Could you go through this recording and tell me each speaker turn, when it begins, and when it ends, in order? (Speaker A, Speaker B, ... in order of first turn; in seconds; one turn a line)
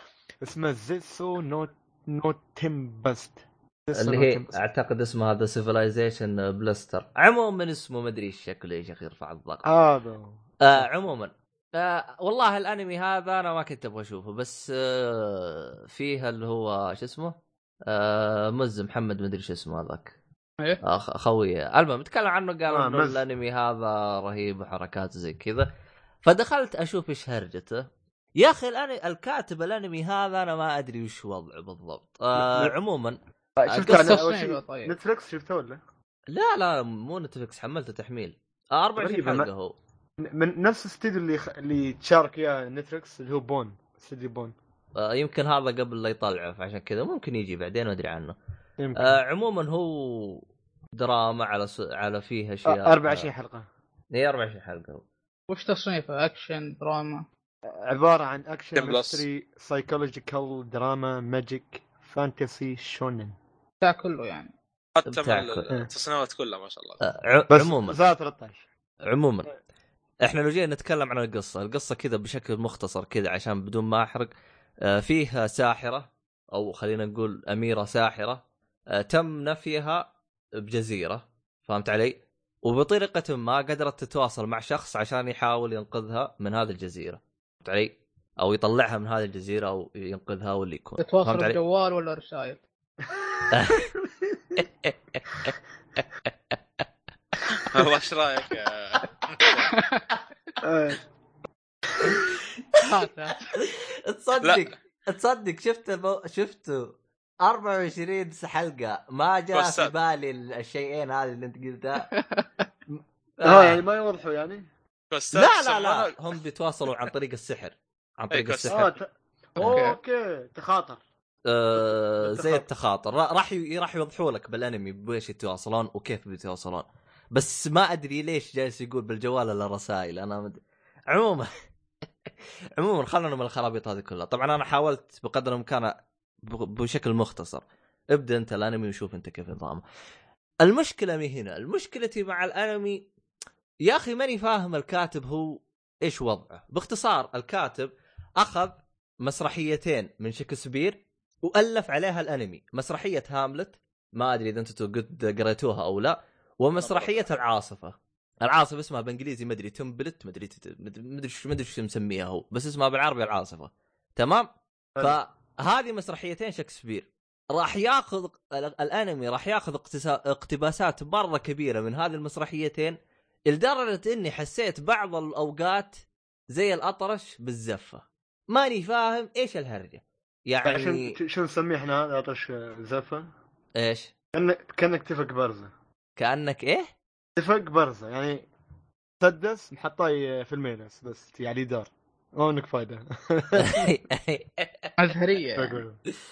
Speaker A: 0.4-4.6
Speaker B: 3.9-9.7
Speaker A: 9.6-10.8
Speaker B: 10.6-20.1
Speaker B: 20.8-25.7
Speaker A: 22.7-23.2
Speaker B: 26.2-34.2
Speaker A: 32.3-32.7
Speaker A: 33.6-35.8
Speaker C: 33.8-34.9
Speaker B: 36.3-39.7
Speaker A: 39.0-39.5
Speaker A: 40.2-44.5
Speaker B: 45.0-48.3
Speaker A: 48.8-49.2
Speaker B: 49.0-53.3
Speaker A: 52.6-53.6
Speaker B: 54.1-55.0
Speaker C: 55.5-57.2
Speaker A: 57.7-63.3
Speaker D: 58.8-59.2
Speaker C: 63.8-64.5
Speaker D: 65.0-67.0
Speaker B: 65.0-65.7
Speaker B: 67.0-68.0
Speaker A: 67.5-68.6
Speaker B: 69.1-69.5
Speaker B: 70.2-74.3
Speaker B: 74.9-91.6
Speaker C: 91.0-92.6
Speaker A: 93.1-93.4
Speaker B: 93.5-93.9
Speaker A: 94.0-94.6
Speaker B: 94.6-95.5
Speaker B: 96.2-96.6
Speaker D: 97.6-99.7
Speaker C: 99.7-100.0
Speaker A: 100.6-101.0
Speaker B: 102.0-102.8
Speaker C: 102.8-103.5
Speaker B: 103.5-112.1
Speaker D: 109.5-109.9
Speaker C: 112.0-112.7
Speaker B: 113.4-113.8
Speaker A: 113.4-114.6
Speaker D: 115.1-116.2
Speaker B: 115.3-118.9
Speaker D: 118.3-118.8
Speaker A: 118.7-121.0
Speaker C: 119.6-120.0
Speaker B: 121.5-131.5
Speaker A: 121.8-122.7
Speaker B: 132.8-135.9
Speaker B: 136.4-139.8
Speaker B: 140.6-143.1
Speaker B: 143.8-164.5
Speaker D: 156.8-157.2
Speaker B: 165.0-172.9
Speaker B: 173.5-181.2
Speaker A: 180.6-183.3
Speaker B: 183.8-184.1
Speaker A: 184.3-185.7
Speaker B: 186.2-186.9
Speaker A: 187.4-188.5
Speaker A: 189.2-193.9
Speaker B: 193.6-194.9
Speaker C: 195.0-195.8
Speaker A: 195.6-196.0